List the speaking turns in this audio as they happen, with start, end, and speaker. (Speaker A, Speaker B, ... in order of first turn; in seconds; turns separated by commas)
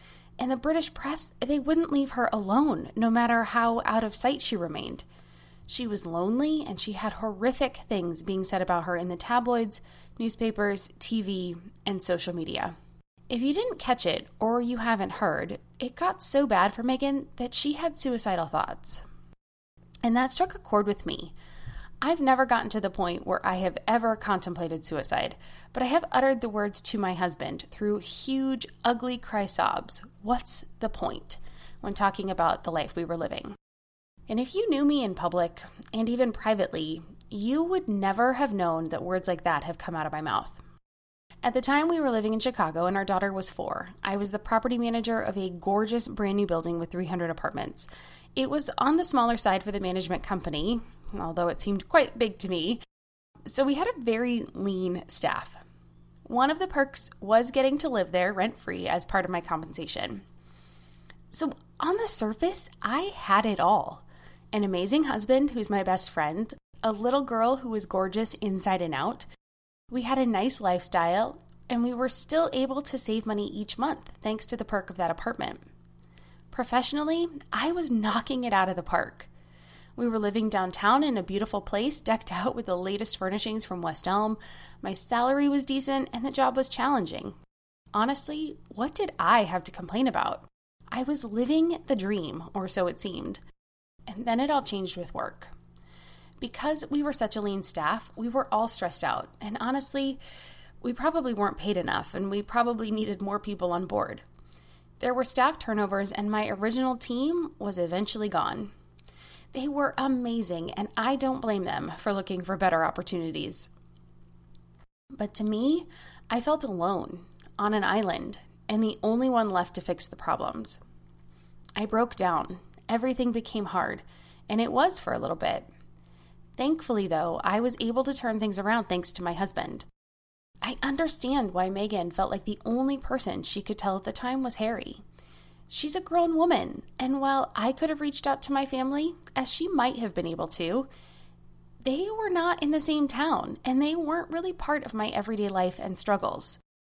Speaker A: 0.4-5.0, Speaker A: 5.7-12.8, Speaker A: 13.3-19.0, Speaker A: 20.0-21.3, Speaker A: 22.0-33.5, Speaker A: 34.3-40.6, Speaker A: 41.4-52.8, Speaker A: 53.5-55.6, Speaker A: 56.3-60.2, Speaker A: 61.3-69.3, Speaker A: 69.9-75.6, Speaker A: 76.5-79.3, Speaker A: 80.0-87.4, Speaker A: 87.9-93.4, Speaker A: 94.1-95.5, Speaker A: 96.4-100.2, Speaker A: 100.8-104.2, Speaker A: 105.0-108.7, Speaker A: 109.5-113.7, Speaker A: 115.2-120.8, Speaker A: 121.8-125.7, Speaker A: 126.6-129.9, Speaker A: 130.6-135.0, Speaker A: 135.7-140.9, Speaker A: 141.8-146.6